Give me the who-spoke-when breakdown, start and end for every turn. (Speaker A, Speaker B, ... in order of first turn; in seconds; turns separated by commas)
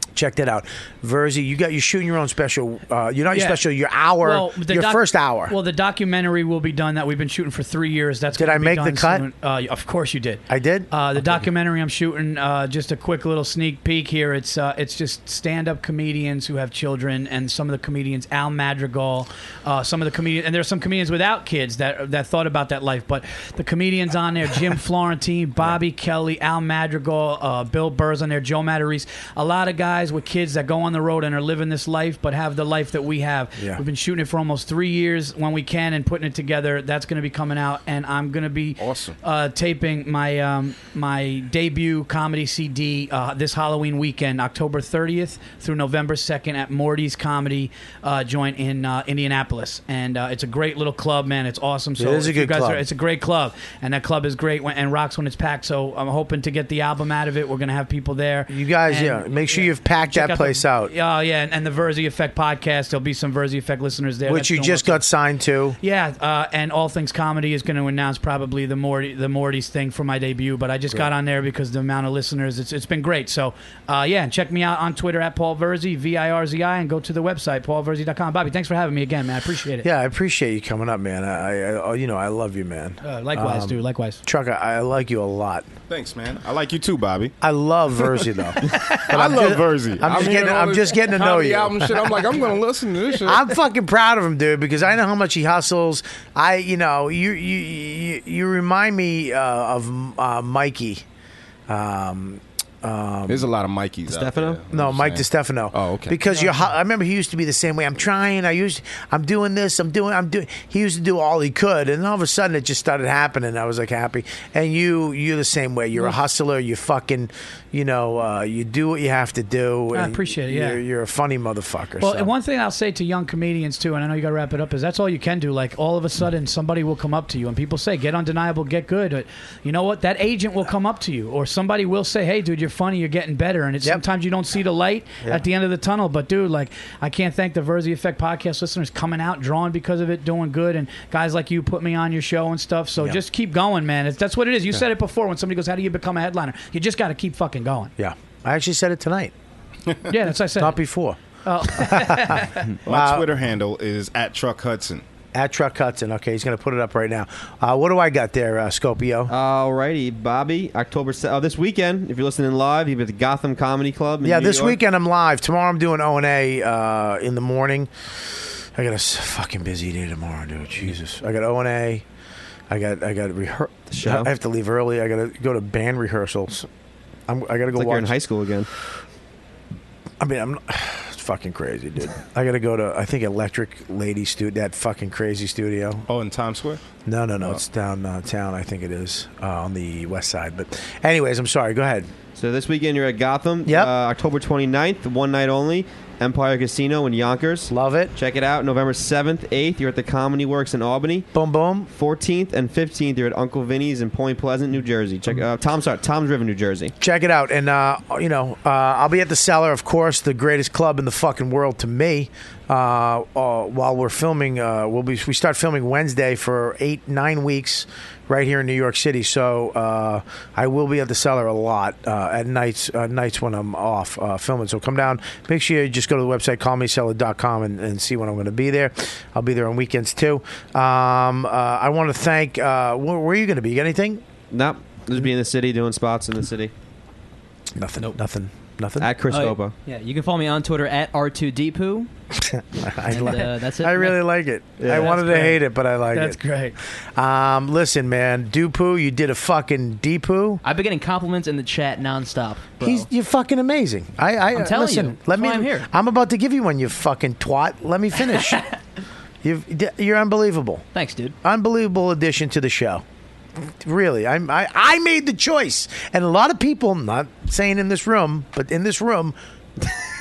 Speaker A: 0.2-5.6, Speaker B: 3.3-3.6, Speaker B: 4.2-65.0, Speaker A: 8.4-9.3, Speaker A: 10.5-10.9, Speaker C: 38.8-39.2, Speaker A: 52.0-52.8, Speaker A: 58.5-60.9, Speaker A: 64.3-65.8, Speaker B: 65.8-79.9, Speaker A: 79.8-85.7, Speaker B: 83.0-84.2, Speaker C: 85.9-87.3, Speaker A: 87.4-92.4, Speaker B: 88.7-89.0, Speaker C: 89.0-93.5, Speaker A: 93.2-101.0, Speaker A: 101.7-103.5, Speaker C: 103.3-106.2, Speaker D: 104.1-104.6, Speaker A: 104.7-122.3, Speaker B: 106.3-106.6, Speaker B: 119.9-120.8, Speaker B: 122.0-147.9, Speaker A: 148.0-149.3, Speaker B: 150.1-150.8, Speaker A: 150.6-151.2, Speaker B: 151.4-152.7, Speaker A: 151.7-153.3, Speaker C: 152.8-155.0, Speaker A: 155.3-159.3, Speaker D: 159.3-164.8, Speaker A: 164.2-167.9, Speaker A: 168.8-172.0, Speaker A: 172.7-176.7, Speaker D: 173.9-174.3, Speaker A: 177.3-178.2, Speaker D: 177.7-178.7, Speaker A: 180.2-186.1, Speaker C: 186.1-186.8, Speaker A: 187.1-192.1, Speaker D: 192.4-201.3, Speaker A: 197.7-198.1, Speaker A: 201.3-201.9, Speaker D: 201.9-206.9, Speaker A: 207.0-234.2, Speaker D: 234.5-236.7, Speaker A: 237.8-239.1, Speaker D: 239.0-239.8, Speaker E: 239.3-242.1, Speaker A: 242.4-246.4, Speaker E: 243.1-244.2, Speaker E: 244.9-245.6, Speaker B: 245.1-245.4, Speaker B: 246.1-246.8, Speaker A: 247.2-250.6, Speaker E: 250.6-253.1, Speaker A: 252.8-258.6, Speaker E: 254.6-255.9, Speaker A: 259.4-260.9, Speaker E: 260.9-261.4, Speaker A: 261.4-263.0, Speaker A: 263.6-269.9